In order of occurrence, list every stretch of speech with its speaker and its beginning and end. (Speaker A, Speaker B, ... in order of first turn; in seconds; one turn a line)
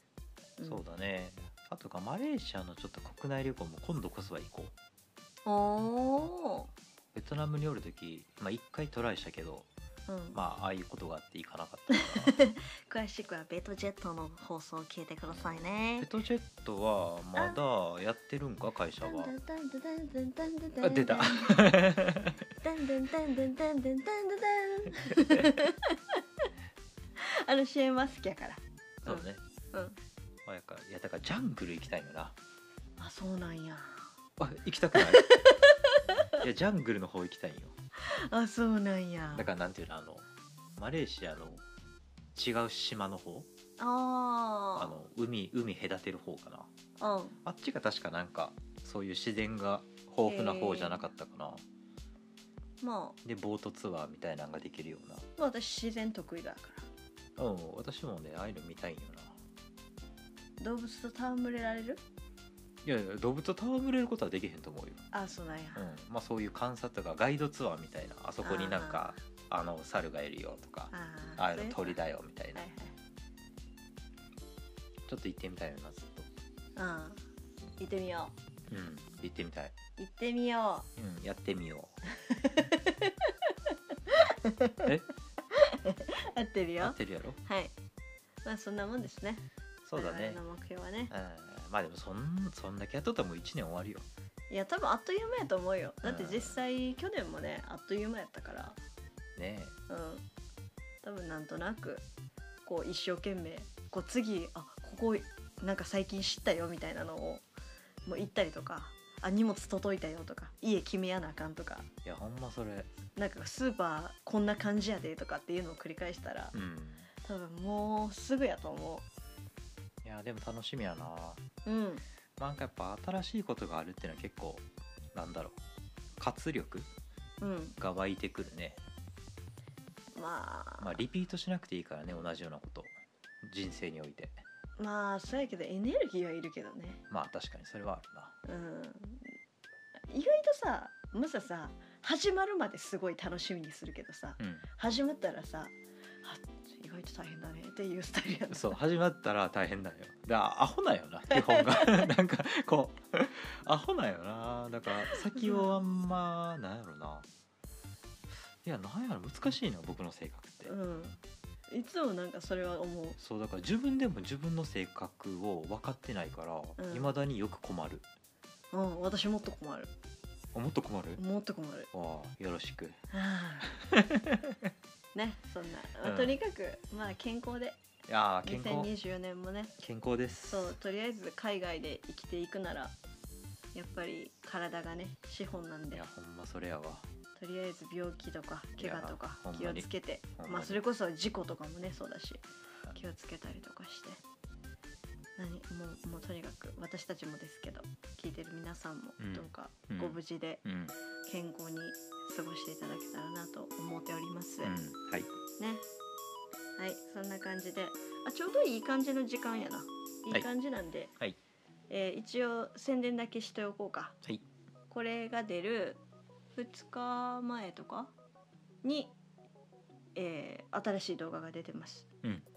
Speaker A: 0.6-0.8
Speaker B: 0.6-4.7
Speaker A: 5.5-6.7
Speaker B: 7.1-9.7
Speaker A: 10.1-10.4
Speaker B: 10.3-12.4
Speaker A: 11.9-16.1
Speaker B: 16.0-19.3
Speaker A: 19.0-21.7
Speaker B: 20.8-22.4
Speaker A: 22.6-26.2
Speaker B: 25.2-25.5
Speaker A: 27.2-30.0
Speaker B: 29.0-29.4
Speaker B: 30.4-32.4
Speaker A: 33.0-34.0
Speaker B: 34.4-35.3
Speaker A: 34.9-36.3
Speaker B: 36.4-37.7
Speaker A: 38.0-39.5
Speaker B: 39.3-41.6
Speaker B: 42.3-43.5
Speaker A: 43.8-45.0
Speaker B: 44.8-46.7
Speaker A: 47.0-47.4
Speaker B: 47.5-51.6
Speaker A: 50.2-51.0
Speaker A: 52.8-53.2
Speaker B: 53.2-55.2
Speaker A: 55.4-56.9
Speaker B: 57.4-59.4
Speaker A: 60.6-62.0
Speaker B: 62.8-65.0
Speaker A: 65.1-65.9
Speaker B: 65.8-72.6
Speaker A: 68.4-69.2
Speaker A: 70.9-72.0
Speaker A: 72.5-72.9
Speaker B: 75.1-76.3
Speaker A: 76.8-77.2
Speaker A: 77.8-78.3
Speaker B: 78.7-79.8
Speaker A: 80.0-80.9
Speaker B: 81.0-82.0
Speaker A: 82.3-83.3
Speaker A: 84.1-84.9
Speaker A: 85.5-87.7
Speaker B: 86.8-87.4
Speaker A: 88.5-89.4
Speaker B: 89.8-90.4
Speaker A: 90.0-91.1
Speaker B: 91.1-94.1
Speaker A: 94.5-98.8
Speaker B: 96.0-96.6
Speaker B: 99.4-99.8
Speaker A: 99.9-100.2
Speaker A: 101.0-102.0
Speaker A: 102.7-107.4
Speaker A: 108.1-111.9
Speaker B: 112.0-112.9
Speaker A: 113.2-116.5
Speaker B: 116.5-117.1
Speaker A: 117.2-119.0
Speaker B: 120.0-121.4
Speaker A: 121.7-122.0
Speaker B: 122.4-125.6
Speaker B: 126.2-126.9
Speaker A: 127.4-127.8
Speaker B: 127.8-128.8
Speaker A: 130.2-131.0
Speaker B: 130.8-134.4
Speaker A: 134.8-137.0
Speaker B: 137.1-138.3
Speaker A: 138.4-139.3
Speaker A: 140.1-148.8
Speaker B: 144.4-144.6
Speaker B: 148.5-157.3
Speaker A: 151.3-152.0
Speaker A: 155.3-155.8
Speaker B: 158.6-160.7
Speaker A: 160.7-163.2
Speaker B: 163.2-168.1
Speaker A: 166.8-167.1
Speaker A: 168.7-169.9
Speaker B: 170.5-171.2
Speaker A: 171.2-171.9
Speaker B: 171.9-173.0
Speaker A: 173.1-173.7
Speaker B: 173.7-174.7
Speaker A: 175.2-177.8
Speaker B: 176.0-176.4
Speaker B: 178.1-178.9
Speaker A: 178.4-179.7
Speaker B: 179.8-180.8
Speaker A: 180.5-182.9
Speaker A: 183.7-186.1
Speaker B: 185.9-187.1
Speaker A: 187.4-194.2
Speaker B: 188.8-189.9
Speaker B: 190.4-190.8
Speaker A: 195.4-200.6
Speaker B: 199.2-200.9
Speaker A: 201.2-204.8
Speaker B: 204.6-205.3
Speaker A: 205.6-205.8
Speaker A: 206.8-211.1
Speaker A: 211.9-214.2
Speaker A: 214.9-216.0
Speaker A: 216.6-218.1
Speaker A: 218.8-219.1
Speaker A: 220.2-222.1